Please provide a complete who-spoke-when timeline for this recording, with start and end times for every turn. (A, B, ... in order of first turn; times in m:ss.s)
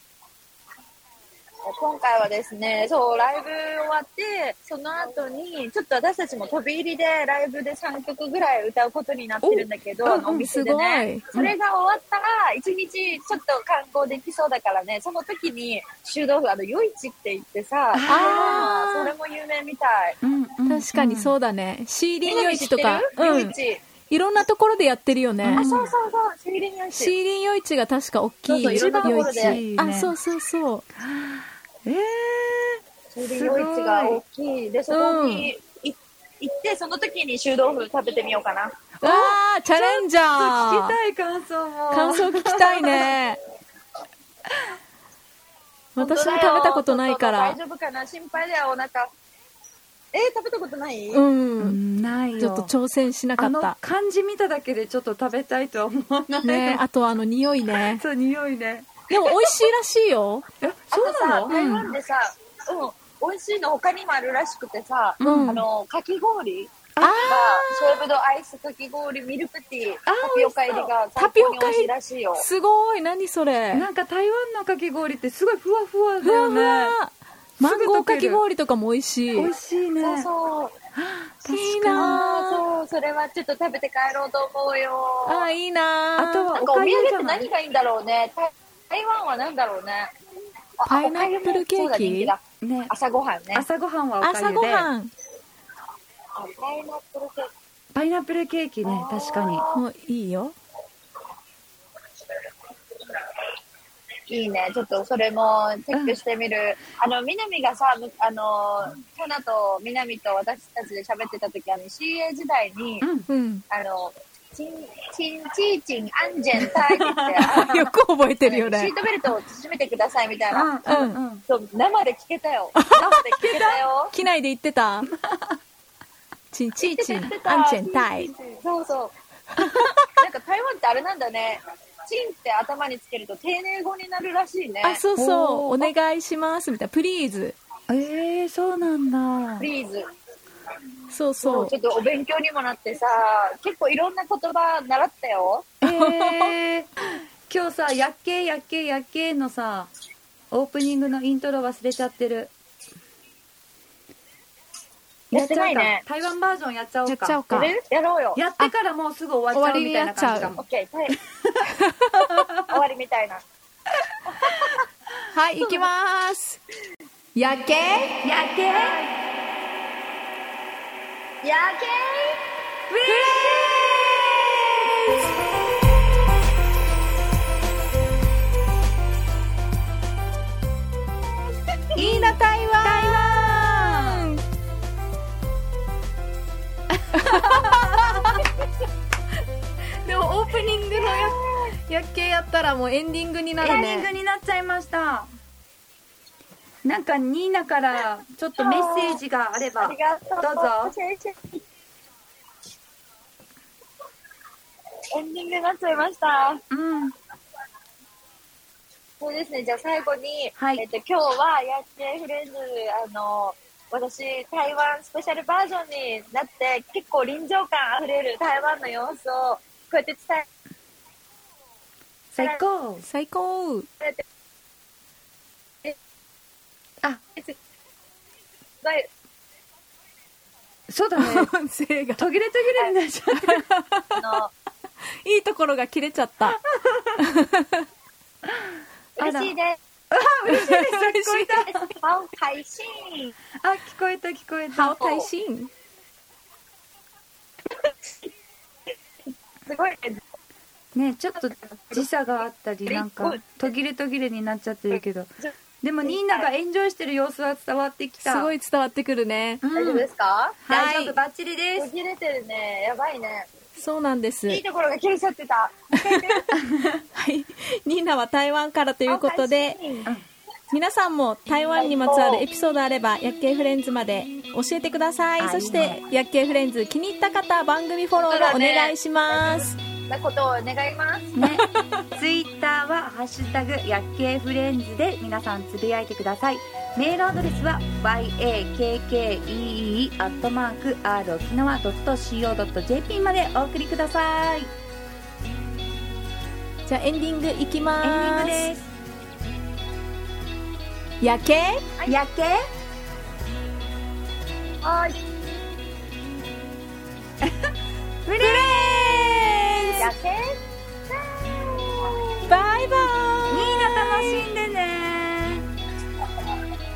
0:01.7-0:20.2 A
0:09.4-0:10.5 B
0:10.5-0:11.3 C
0:17.9-0:18.7 B
0:18.1-0:19.1 C
0:20.2-0:21.4 B
0:20.7-0:23.5 C
0:22.2-0:23.8 A
0:24.1-0:25.7 C
0:25.4-0:25.9 B
0:25.5-0:27.1 A
0:26.9-0:30.9 C
0:28.5-0:29.6 A
0:28.7-0:30.1 B
0:31.0-0:34.2 B
0:33.1-0:38.8 A
0:34.9-0:35.5 C
0:39.0-0:43.1 B
0:39.0-0:41.0 C
0:41.9-0:43.4 C
0:46.0-0:47.6 C
0:46.0-0:49.1 A
0:50.1-0:51.2 A
0:51.1-0:51.8 C
0:51.6-0:52.7 B
0:52.4-0:53.8 C
0:53.4-0:56.8 B
0:56.4-0:58.0 C
0:57.9-0:59.0 B
0:59.1-1:00.4 C
1:00.6-1:01.6 B
1:00.9-1:12.5 A
1:01.5-1:01.9 C
1:05.2-1:05.6 C
1:05.2-1:05.7 B
1:07.0-1:07.3 B
1:07.0-1:08.0 C
1:10.1-1:10.9 B
1:11.2-1:13.9 C
1:13.7-1:17.0 B
1:16.2-1:19.5 C
1:17.6-1:18.4 B
1:19.3-1:20.3 B
1:20.0-1:20.8 A
1:20.9-1:22.2 B
1:21.5-1:22.6 C
1:22.0-1:25.5 A
1:25.2-1:26.6 C
1:26.2-1:27.5 B
1:26.6-1:30.1 A
1:30.8-1:33.7 A
1:30.9-1:32.3 C
1:32.6-1:32.9 B
1:33.5-1:34.9 B
1:34.2-1:35.1 C
1:36.4-1:37.5 A
1:37.9-1:39.6 B
1:38.8-1:39.8 A
1:39.7-1:40.6 C
1:44.3-1:53.1 A
1:45.9-1:46.2 B
1:53.0-1:53.3 B
1:53.3-1:53.6 C
1:53.7-1:57.8 A
1:56.6-1:57.5 B
1:57.5-1:58.9 C
1:58.4-2:04.1 A
2:00.5-2:01.4 B
2:00.9-2:01.2 C
2:02.8-2:05.1 C
2:03.0-2:03.2 B
2:05.0-2:05.6 B
2:06.5-2:08.3 C
2:06.8-2:15.0 A
2:09.6-2:10.0 C
2:14.8-2:17.6 C
2:15.2-2:15.9 B
2:17.9-2:19.7 B
2:19.6-2:20.0 A
2:21.1-2:21.7 C
2:21.4-2:25.7 A
2:25.8-2:26.9 B
2:25.8-2:26.5 C
2:27.5-2:29.9 B
2:30.5-2:32.5 B
2:35.3-2:37.4 B
2:35.3-2:36.0 A
2:37.0-2:37.7 C
2:37.5-2:38.4 A
2:38.3-2:40.6 B
2:39.5-2:40.6 C
2:40.6-2:41.2 A
2:41.3-2:42.7 B
2:41.8-2:42.4 C
2:42.7-2:43.4 A
2:44.3-2:44.8 A
2:45.3-2:46.6 C
2:45.6-2:45.9 A
2:47.4-2:48.2 C
2:48.2-2:49.0 B
2:48.7-2:49.1 A
2:51.4-2:52.4 A
2:52.9-2:54.1 B
2:53.1-2:54.1 A
3:01.9-3:04.3 B
3:02.0-3:04.4 C
3:07.0-3:08.4 B
3:07.2-3:08.5 C
3:10.0-3:14.1 C
3:11.0-3:11.7 A
3:13.6-3:15.3 B
3:16.8-3:21.0 B
3:18.6-3:19.2 A
3:19.8-3:21.6 A
3:25.1-3:26.6 A
3:26.7-3:27.1 B
3:29.2-3:40.5 A
3:30.6-3:30.8 B
3:42.3-3:43.1 B
3:43.0-3:43.9 C
3:48.8-3:49.1 A
3:50.9-3:51.5 B
3:51.2-3:52.3 C
3:52.2-3:53.7 B
3:53.3-3:54.2 C
3:54.2-3:54.5 A
3:55.2-3:56.6 C
3:56.5-3:57.2 B
3:57.2-3:57.7 C
3:58.4-3:59.5 B
3:59.2-3:59.8 A
4:00.1-4:01.9 B
4:00.5-4:01.6 C
4:01.7-4:03.3 A
4:03.6-4:05.0 B
4:04.7-4:05.7 C
4:05.0-4:05.3 A
4:09.7-4:10.2 A
4:10.9-4:18.6 B
4:12.9-4:13.7 A
4:14.9-4:16.5 A
4:18.2-4:19.6 C
4:19.6-4:20.1 B
4:19.7-4:20.6 A
4:20.6-4:21.9 B
4:20.7-4:21.2 C
4:21.8-4:23.5 A
4:23.8-4:24.6 C
4:24.5-4:26.6 A
4:26.0-4:26.4 C
4:26.6-4:27.0 B
4:27.1-4:29.8 C
4:29.1-4:30.1 A
4:30.7-4:39.8 C
4:31.7-4:32.5 A
4:35.4-4:36.0 B
4:38.2-4:41.3 A
4:41.4-4:54.7 B
4:41.4-4:41.8 C
4:56.9-4:58.7 C
4:58.0-4:58.9 B
5:01.2-5:01.8 C
5:02.1-5:02.6 B
5:04.8-5:05.2 A
5:07.4-5:07.7 B
5:08.3-5:09.3 B
5:08.4-5:10.1 C
5:10.0-5:12.6 A
5:12.5-5:14.5 C
5:13.5-5:15.7 B